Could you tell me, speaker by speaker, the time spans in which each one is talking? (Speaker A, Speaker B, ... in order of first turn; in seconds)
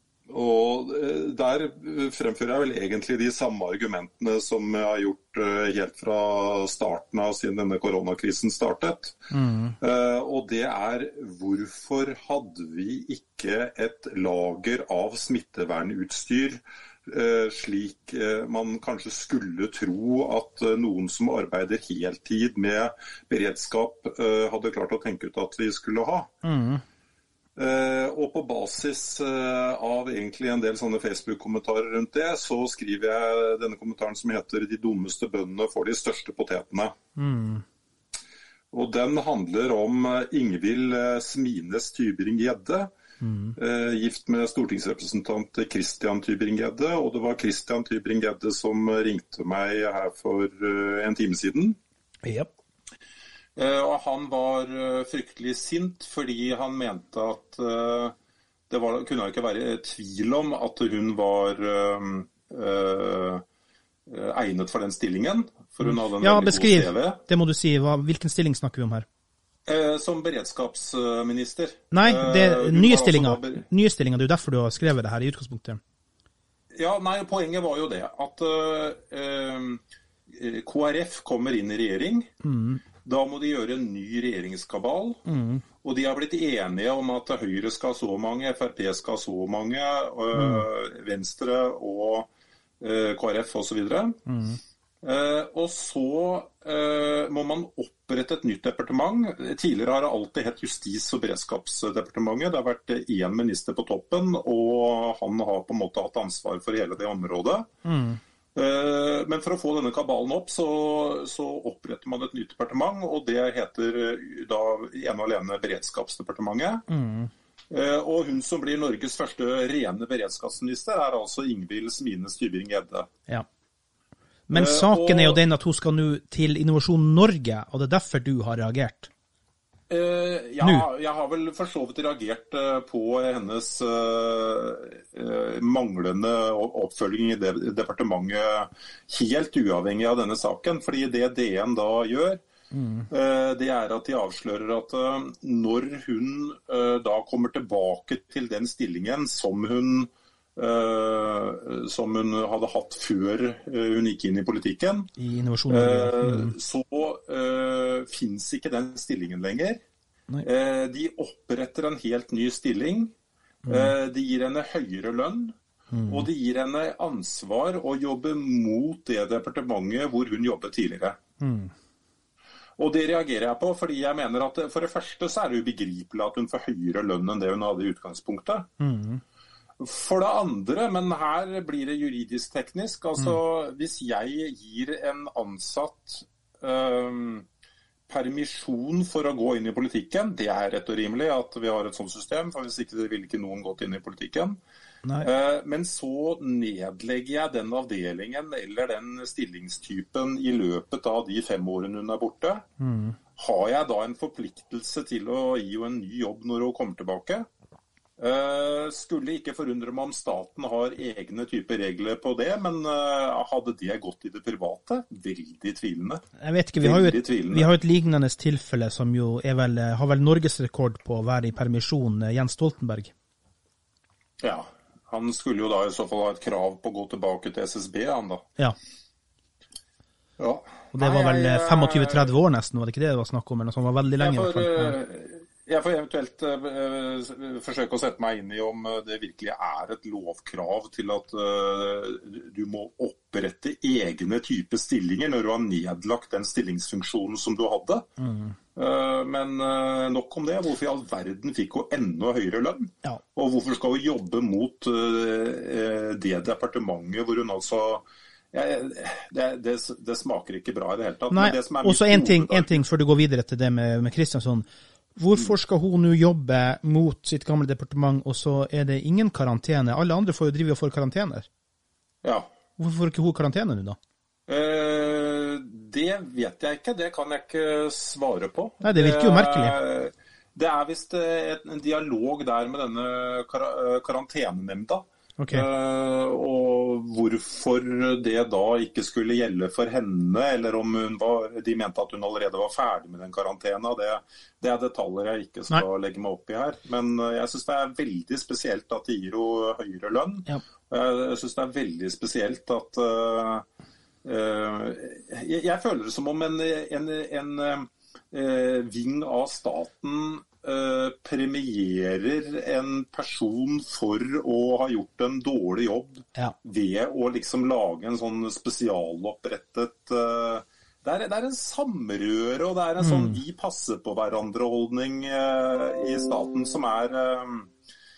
Speaker A: 0.3-9.2, 9.8-26.3, 27.6-37.0, 38.7-42.9, 43.6-51.8, 53.6-58.1, 58.7-63.4, 64.1-67.2, 69.7-73.7, 76.7-82.3, 83.0-85.2, 85.8-92.3, 92.8-94.2, 95.0-107.7, 108.5-116.9, 117.7-123.1, 124.5-125.4, 129.9-142.4, 143.1-155.1, 155.7-159.8, 160.4-163.1, 163.7-171.2, 172.8-178.7, 179.8-187.5, 188.1-194.6, 195.2-202.7, 203.4-207.5, 208.2-216.2, 216.8-217.7, 224.4-228.5, 230.4-232.3, 234.2-248.1, 248.8-262.8, 272.2-272.5, 274.5-303.7, 304.2-327.7
Speaker B: 9.3-9.8, 26.4-26.8, 37.2-37.6, 43.2-43.6, 52.2-52.5, 65.8-69.1, 71.9-75.8, 82.4-82.8, 85.3-85.6, 90.3-90.7, 94.3-94.6, 107.8-108.2, 116.9-117.3, 124.5-129.1, 130.6-130.9, 142.7-143.1, 155.2-156.5, 163.7-163.9, 165.9-166.3, 171.4-171.7, 178.8-179.2, 202.8-203.2, 216.4-223.1, 230.9-234.9, 248.2-248.6, 261.3-271.5, 272.8-274.0, 278.8-279.8, 285.4-285.7, 323.0-323.4